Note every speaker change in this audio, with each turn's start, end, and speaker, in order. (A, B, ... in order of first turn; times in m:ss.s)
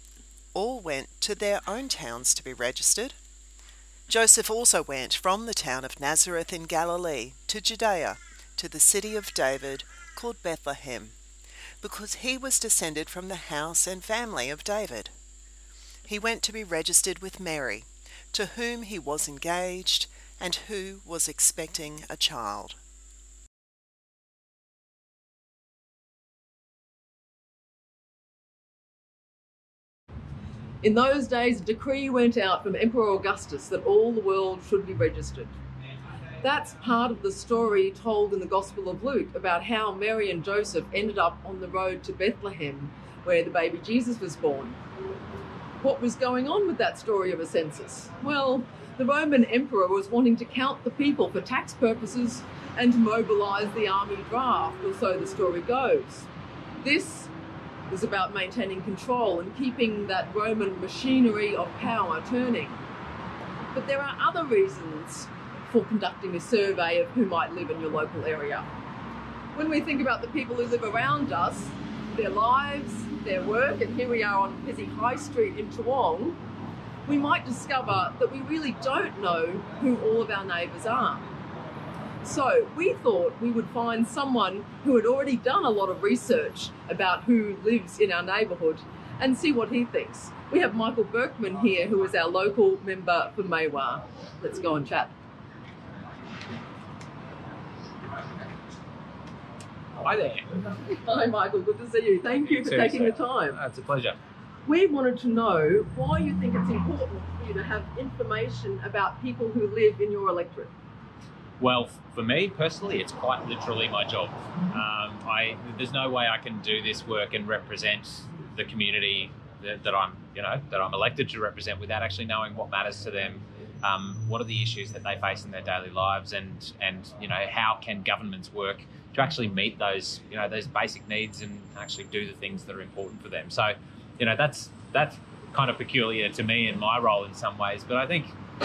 0:00.5-0:03.1 A
0:04.1-0:11.1 A
0:11.8-0:15.1 A
0:16.1-0:22.8 A
0:30.8-0:35.6 B
0:36.4-0:44.8 B
0:45.8-0:56.3 B
0:56.8-0:57.3 B
0:57.9-1:02.8 B
1:03.7-1:08.7 B
1:09.5-1:16.4 B
1:17.0-1:21.2 B
1:22.2-1:35.1 B
1:40.0-1:40.5 C
1:40.7-1:43.6 B
1:42.5-1:44.2 C
1:44.6-1:50.7 B
1:51.6-2:18.3 C